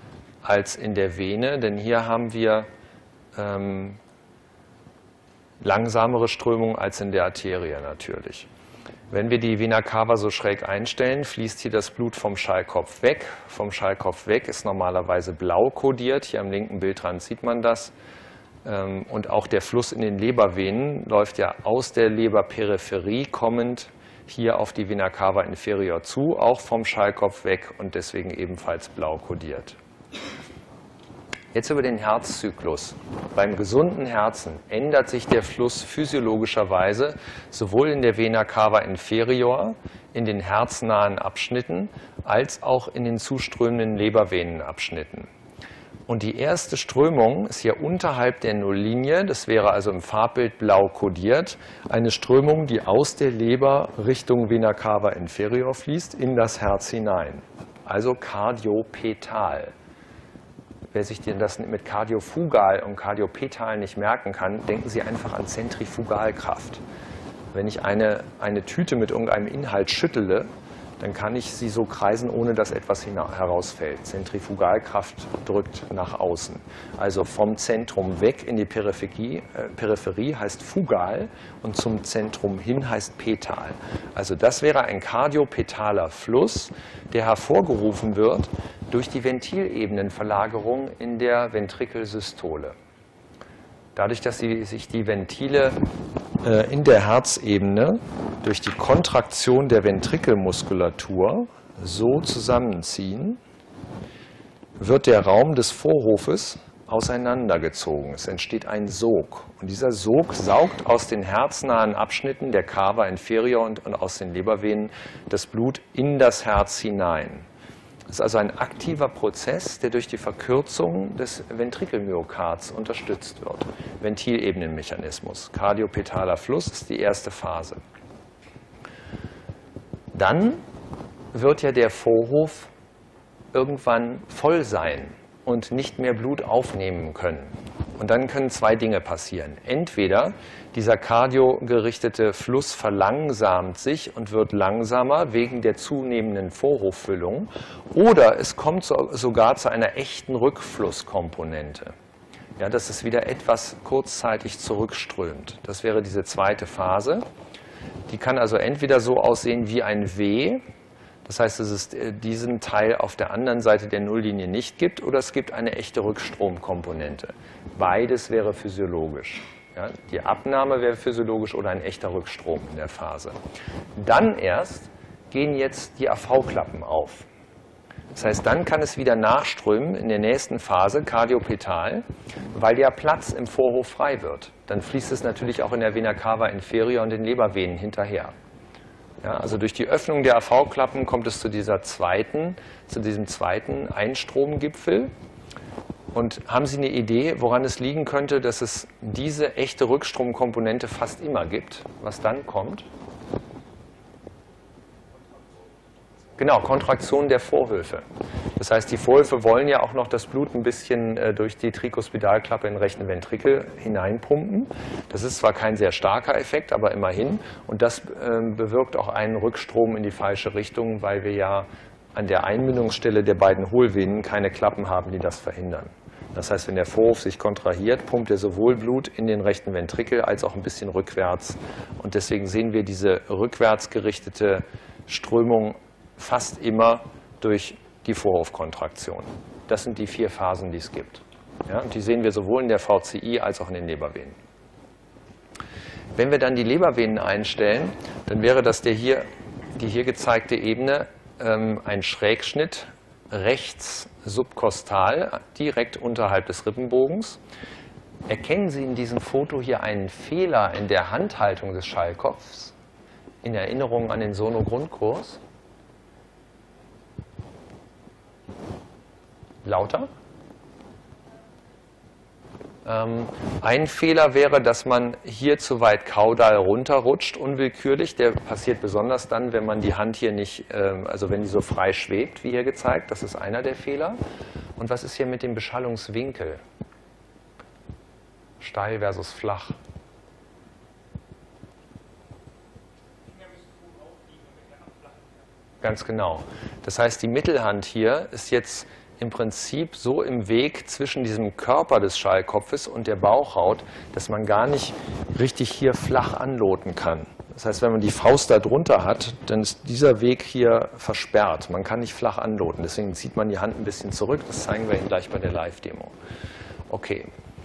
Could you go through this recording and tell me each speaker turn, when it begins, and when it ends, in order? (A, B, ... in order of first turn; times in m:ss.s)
0:00.4-0:02.7 A
0:03.3-0:04.0 A
0:05.6-0:08.5 A
0:09.1-0:17.9 A
0:18.6-0:29.8 A
0:31.5-0:45.3 A
0:46.1-0:59.7 A
1:00.9-1:06.8 A
1:07.5-1:10.5 A
1:11.0-1:32.7 A
1:33.9-1:35.8 A
1:36.4-1:43.4 A
1:44.8-1:57.5 A
1:58.1-2:07.8 A
2:10.1-2:10.6 A
2:11.3-2:12.7 A
2:13.5-2:31.9 A
2:32.6-2:37.2 A
2:38.1-2:40.6 A
2:41.2-2:53.4 A
2:54.0-2:57.3 A
2:58.1-3:08.3 A
3:09.2-3:15.1 A
3:16.1-3:22.9 A
3:26.4-3:28.0 A
3:28.6-4:04.4 A
4:06.2-4:09.2 A
4:09.8-4:17.4 A
4:18.3-4:22.7 A
4:23.4-4:25.4 A
4:29.6-4:30.1 A
4:32.8-4:44.2 A
4:44.8-4:46.6 A
4:48.6-4:49.8 A
4:55.8-5:16.1 A
5:16.9-5:17.3 A